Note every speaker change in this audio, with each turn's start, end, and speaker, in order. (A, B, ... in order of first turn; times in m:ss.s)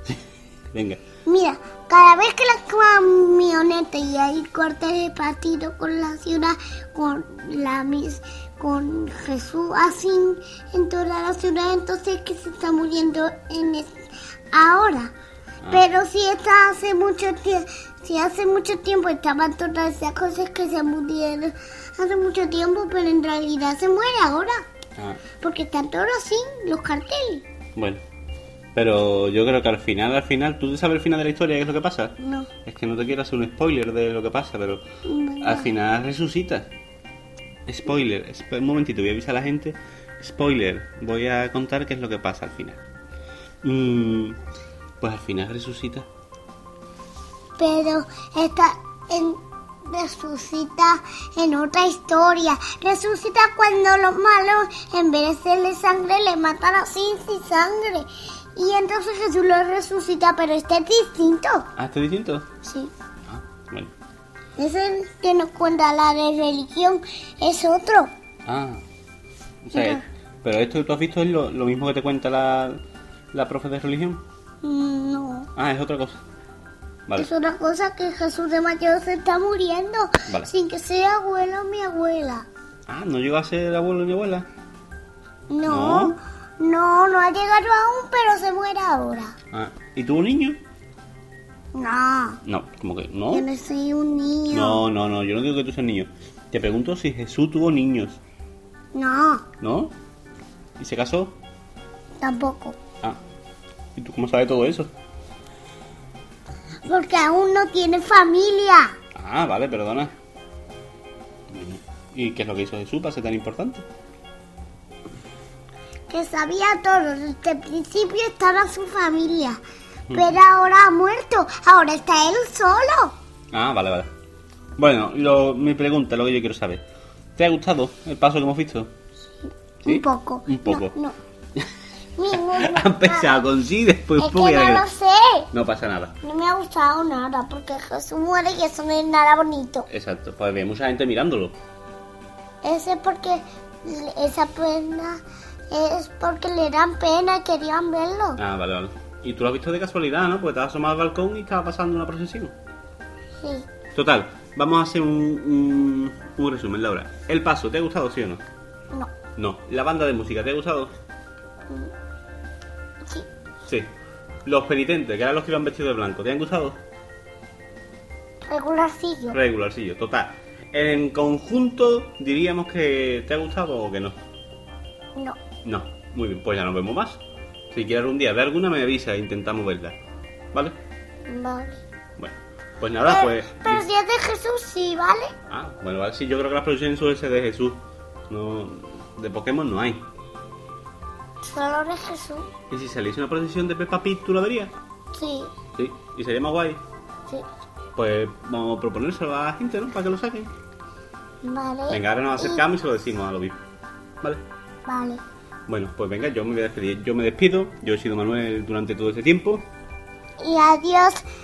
0:00.7-0:01.1 A
0:01.2-0:15.1 B
0:15.7-0:24.6 B
0:25.0-0:25.3 A
0:25.3-0:27.5 B
0:27.8-0:28.0 A
0:28.8-0:34.8 A
0:32.2-0:32.5 B
0:35.0-0:35.7 B
0:35.4-0:36.7 A
0:37.7-0:42.8 A
0:43.6-0:44.4 A
0:45.0-0:46.1 A
0:47.6-1:01.7 B
1:01.8-1:02.6 A
1:02.6-1:02.9 B
1:03.3-1:03.9 A
1:04.6-1:08.1 B
1:08.5-1:08.8 A
1:09.6-1:12.8 A
1:09.7-1:10.0 B
1:13.3-1:14.2 A
1:14.6-1:15.5 B
1:15.5-1:16.2 A
1:17.2-1:22.5 B
1:20.3-1:20.5 A
1:22.9-1:24.5 A
1:25.5-1:29.4 B
1:25.7-1:26.2 A
1:29.5-1:30.6 A
1:31.7-1:32.4 B
1:32.4-1:33.5 A
1:33.3-1:34.8 B
1:34.5-1:38.2 A
1:38.9-1:39.5 B
1:39.6-1:39.9 A
1:40.8-1:41.4 A
1:42.2-1:42.8 B
1:44.0-1:44.9 A
1:46.8-1:49.0 B
1:49.1-1:50.2 A
1:51.5-1:53.9 A
1:56.1-1:59.6 B
2:00.1-2:00.4 A
2:00.1-2:03.2 B
2:03.5-2:04.1 A
2:04.8-2:06.8 A
2:07.4-2:09.0 A
2:09.8-2:11.2 B
2:09.9-2:11.0 A
2:12.2-2:13.4 B
2:12.3-2:14.9 A
2:14.2-2:15.5 B
2:15.5-2:16.2 A
2:16.2-2:19.9 B
2:19.9-2:21.6 A
2:22.6-2:28.4 B
2:28.4-2:32.5 A
2:33.4-2:33.7 B
2:33.9-2:38.4 A
2:38.9-2:39.2 B
2:39.2-2:40.9 A
2:44.4-2:46.8 A
2:48.5-2:49.4 B
2:49.3-2:54.2 A
2:55.2-2:55.5 B
2:55.5-3:00.0 A
3:01.3-3:01.8 B
3:02.2-3:03.9 A
3:03.0-3:05.4 B
3:05.5-3:10.1 A
3:11.4-3:12.5 B
3:12.7-3:14.7 A
3:15.1-3:15.6 B
3:15.7-3:16.8 A
3:18.0-3:20.5 A
3:21.4-3:22.7 B
3:21.9-3:23.6 A
3:24.9-3:25.2 B
3:25.7-3:29.7 A
3:30.4-3:31.2 B